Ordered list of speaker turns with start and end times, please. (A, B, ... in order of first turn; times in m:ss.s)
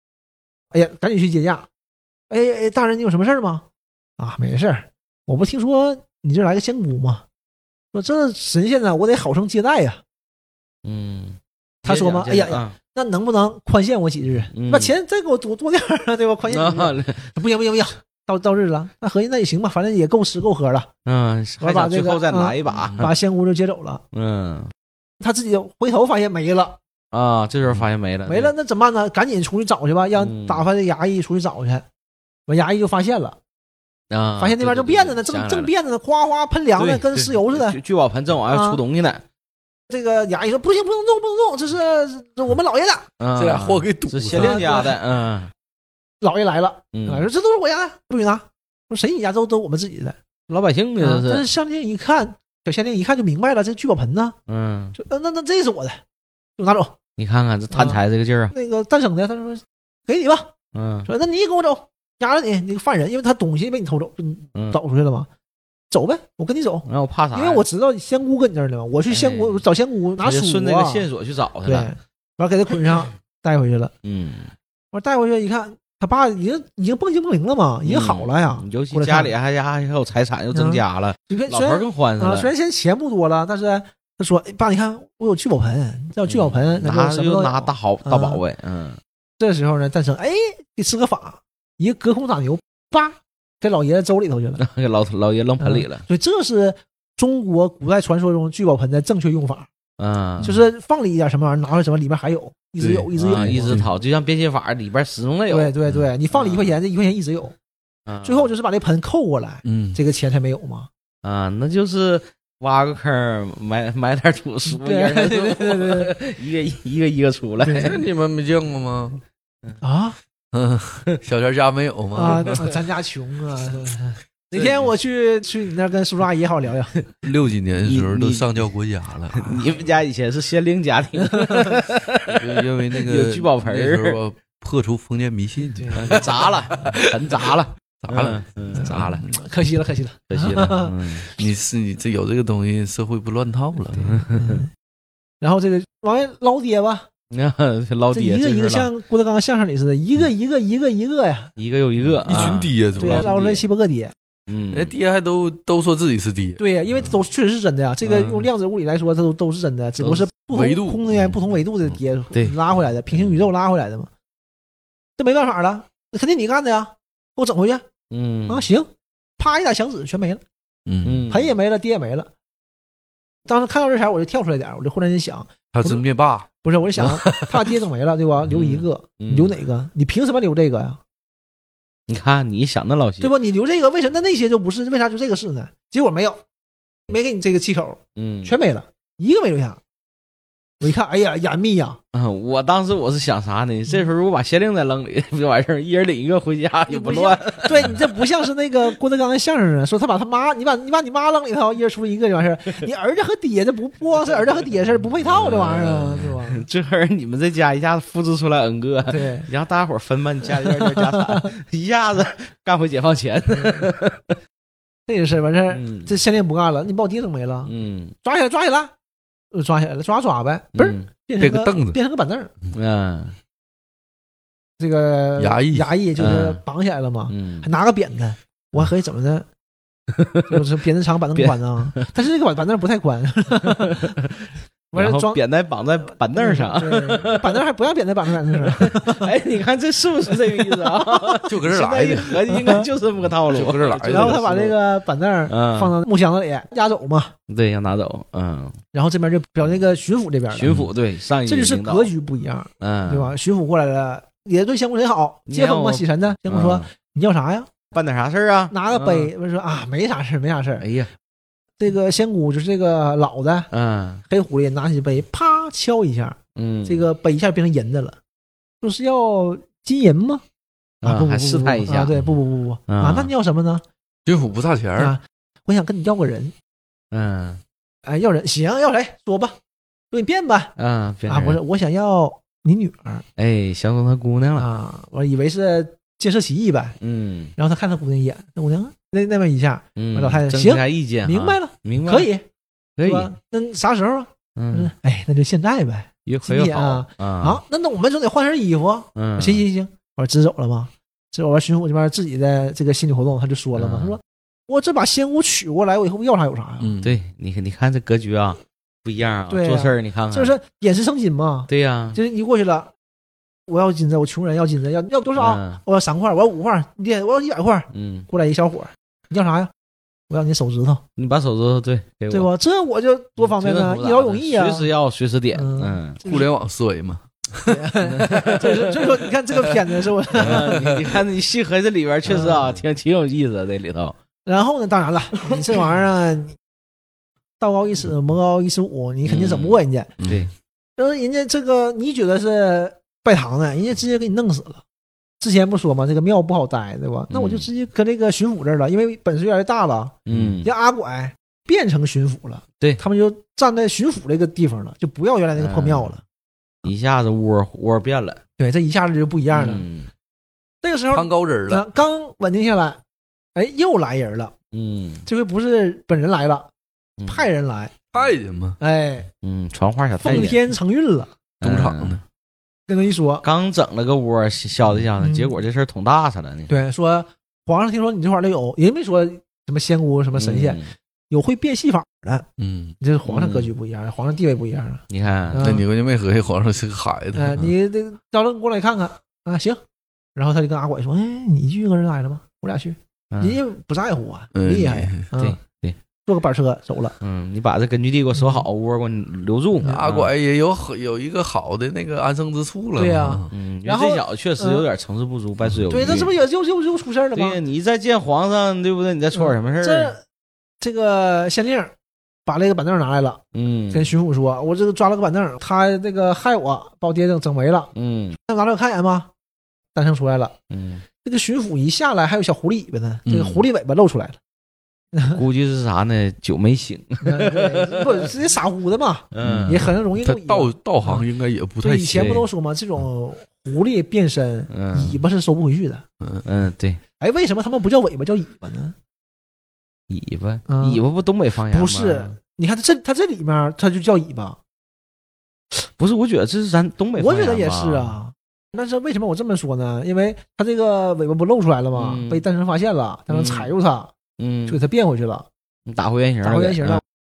0:00.7-0:01.7 A
0:02.3-0:03.6 A
0:04.2-0:07.2 A
0:07.9-0:10.0 A
0:10.8-0:12.7 B
0:11.8-0:20.9 A
0:14.5-0:14.9 B
0:16.5-0:17.3 B
0:21.0-0:23.1 B
0:21.6-0:24.0 A
0:22.8-0:23.1 C
0:24.1-0:24.7 B
0:25.2-0:26.8 A
0:27.1-0:28.5 B
0:28.3-0:31.8 A
0:30.2-0:30.6 B
0:32.5-0:33.4 A
0:34.1-0:35.7 B
0:34.4-0:37.8 A
0:36.8-0:39.2 B
0:38.5-0:38.8 A
0:39.9-0:43.1 A
0:43.2-0:45.5 B
0:43.4-0:44.8 C
0:44.3-0:45.0 A
0:46.2-0:50.2 A
0:46.9-0:47.3 B
0:50.5-0:51.4 B
0:51.0-0:54.4 A
0:54.5-0:55.0 B
0:55.0-0:56.0 A
0:56.6-0:56.9 A
0:57.2-0:58.5 B
0:57.7-0:58.0 A
0:58.5-1:00.5 A
1:00.7-1:01.1 B
1:01.1-1:05.3 A
1:05.9-1:11.0 A
1:06.8-1:07.6 B
1:09.1-1:09.6 B
1:10.2-1:11.9 B
1:11.6-1:13.9 A
1:14.0-1:14.5 B
1:14.9-1:19.3 A
1:17.8-1:22.5 B
1:20.5-1:28.4 A
1:26.2-1:29.0 B
1:29.4-1:34.6 A
1:34.6-1:36.0 B
1:35.6-1:39.7 A
1:40.0-1:40.5 B
1:40.4-1:43.8 A
1:42.8-1:43.9 C
1:43.1-1:45.7 B
1:45.5-1:47.5 A
1:46.3-1:46.8 B
1:48.0-1:48.5 B
1:48.2-1:50.9 A
1:49.6-1:50.0 C
1:51.2-1:58.0 B
1:54.7-1:56.1 A
1:57.6-1:57.9 A
1:57.7-1:59.2 C
1:59.8-2:00.2 A
2:00.5-2:02.7 C
2:02.1-2:06.9 A
2:02.2-2:02.6 B
2:04.5-2:04.9 B
2:07.2-2:09.7 C
2:07.8-2:08.6 B
2:09.3-2:14.2 B
2:11.4-2:11.7 A
2:12.3-2:19.2 C
2:15.8-2:16.3 A
2:15.9-2:19.3 B
2:18.8-2:21.0 A
2:20.3-2:21.3 B
2:21.4-2:24.2 C
2:24.0-2:24.6 B
2:24.3-2:24.7 A
2:25.4-2:27.1 A
2:27.3-2:28.9 B
2:28.1-2:31.5 A
2:31.6-2:33.6 B
2:32.2-2:33.3 C
2:32.3-2:34.1 A
2:34.5-2:34.9 B
2:34.7-2:36.6 C
2:36.6-2:44.1 A
2:38.0-2:38.4 B
2:40.5-2:41.4 C
2:45.2-2:47.8 A
2:48.1-2:48.6 B
2:48.5-2:50.4 A
2:50.8-2:51.2 C
2:51.0-2:51.5 B
2:51.3-2:52.3 A
2:53.4-2:56.0 A
2:55.7-2:57.8 C
2:56.6-3:01.0 A
2:58.5-2:59.6 B
3:02.1-3:03.3 B
3:03.2-3:06.4 A
3:07.1-3:09.8 A
3:08.2-3:08.5 B
3:10.8-3:12.0 A
3:12.1-3:18.2 B
3:16.9-3:26.6 A
3:25.2-3:34.4 B
3:29.1-3:29.5 A
3:30.8-3:31.5 A
3:33.6-3:33.8 A
3:35.1-3:37.7 A
3:35.7-3:36.1 B
3:37.6-3:38.1 B
3:38.2-3:38.9 A
3:39.5-3:42.5 A
3:40.7-3:41.1 B
3:41.4-3:42.0 C
3:42.7-3:43.4 B
3:44.8-3:49.4 A
3:45.4-3:45.9 C
3:46.2-3:46.6 B
3:47.3-3:47.7 B
3:50.1-3:50.6 B
3:50.5-3:54.1 A
3:51.3-3:52.1 B
3:53.7-3:57.6 B
3:54.9-3:55.4 A
3:56.3-3:59.3 A
3:58.5-4:04.7 B
4:00.5-4:01.5 A
4:01.4-4:02.8 C
4:02.5-4:02.8 A
4:03.5-4:04.7 C
4:04.1-4:07.3 A
4:05.5-4:05.9 B
4:07.5-4:08.8 B
4:08.9-4:10.8 A
4:10.5-4:12.1 B
4:11.5-4:17.7 A
4:12.8-4:13.3 B
4:15.5-4:16.9 B
4:17.9-4:19.3 B
4:18.7-4:20.8 A
4:20.8-4:21.1 B
4:21.8-4:23.7 A
4:23.7-4:24.2 B
4:24.3-4:28.2 A
4:26.6-4:27.0 B
4:28.8-4:30.4 A
4:31.0-4:33.8 A
4:31.0-4:32.2 B
4:32.9-4:33.3 B
4:34.2-4:35.2 C
4:35.0-4:36.5 A
4:37.1-4:37.6 B
4:38.0-4:39.6 A
4:40.1-4:40.7 A
4:40.8-4:41.6 B
4:41.3-4:43.2 A
4:43.4-4:44.7 B
4:44.6-4:47.0 A
4:47.0-4:47.5 B
4:47.6-4:52.4 A
4:50.0-4:52.3 B
4:53.0-4:53.3 B
4:53.0-5:06.9 A
4:54.6-4:54.9 B
4:56.2-4:57.6 B
4:59.2-4:59.6 B
5:03.7-5:04.2 B
5:06.8-5:07.2 C
5:07.0-5:10.5 B
5:09.5-5:12.9 A
5:11.7-5:12.2 B
5:13.7-5:19.7 A
5:15.4-5:15.8 B
5:17.9-5:18.3 B
5:20.3-5:21.0 A
5:21.2-5:22.5 B
5:22.3-5:24.9 A
5:23.4-5:26.2 B
5:25.5-5:26.5 A
5:26.2-5:27.9 C
5:27.6-5:30.9 A
5:28.1-5:29.0 B
5:30.3-5:34.2 B
5:30.5-5:30.8 C
5:32.2-5:32.6 A
5:34.4-5:36.6 A
5:37.6-5:40.1 A
5:39.2-5:40.5 B
5:40.2-5:40.4 C
5:41.0-5:44.8 A
5:45.4-5:56.2 A
5:47.3-5:47.7 B
5:50.2-5:50.7 B
5:50.3-5:50.5 C
5:55.6-5:56.1 B
5:56.8-5:58.4 B
5:58.6-5:59.8 A
5:59.5-6:00.1 B
6:00.8-6:03.0 A
6:01.1-6:01.8 C
6:03.5-6:04.5 A
6:04.7-6:05.2 B
6:05.2-6:06.7 A
6:07.2-6:07.5 B
6:07.3-6:08.0 A
6:08.1-6:08.8 C
6:08.8-6:09.3 A
6:09.4-6:10.6 B
6:10.2-6:11.3 A
6:11.6-6:12.2 B
6:11.6-6:12.2 C
6:12.9-6:13.4 A
6:13.4-6:16.7 B
6:15.2-6:15.5 A
6:16.7-6:22.4 A
6:20.3-6:20.9 B
6:22.6-6:23.0 C
6:23.0-6:25.8 A
6:23.2-6:23.7 B
6:25.1-6:25.7 B
6:25.6-6:27.7 C
6:27.3-6:29.8 A
6:30.3-6:35.6 A
6:33.3-6:33.6 B
6:34.5-6:35.2 C
6:35.3-6:36.0 B
6:36.2-6:37.2 A
6:37.2-6:40.3 B
6:38.4-6:38.6 A
6:39.8-6:43.5 C
6:43.0-6:44.8 A
6:43.5-6:46.3 B
6:45.7-6:46.2 C
6:45.9-6:47.6 A
6:47.3-6:50.1 B
6:49.3-6:50.2 A
6:50.8-6:51.9 A
6:52.4-6:57.9 A
6:53.5-6:54.1 B
6:57.9-6:58.4 B
6:58.4-6:59.3 A
6:59.9-7:00.6 A
7:00.7-7:01.0 B
7:01.2-7:04.4 A
7:03.2-7:03.6 C
7:05.1-7:05.4 A
7:05.3-7:08.3 B
7:07.2-7:11.2 A
7:09.3-7:09.9 B
7:09.4-7:12.5 C
7:11.8-7:16.0 A
7:14.7-7:15.2 B
7:16.4-7:17.0 B
7:17.2-7:18.9 A
7:20.1-7:22.3 B
7:20.7-7:21.0 A
7:21.7-7:24.6 A
7:25.7-7:28.2 B
7:27.2-7:34.1 A
7:31.9-7:32.4 B
7:33.3-7:33.7 B
7:34.4-7:34.8 B
7:34.7-7:35.5 A
7:35.9-7:37.0 B
7:36.4-7:37.0 A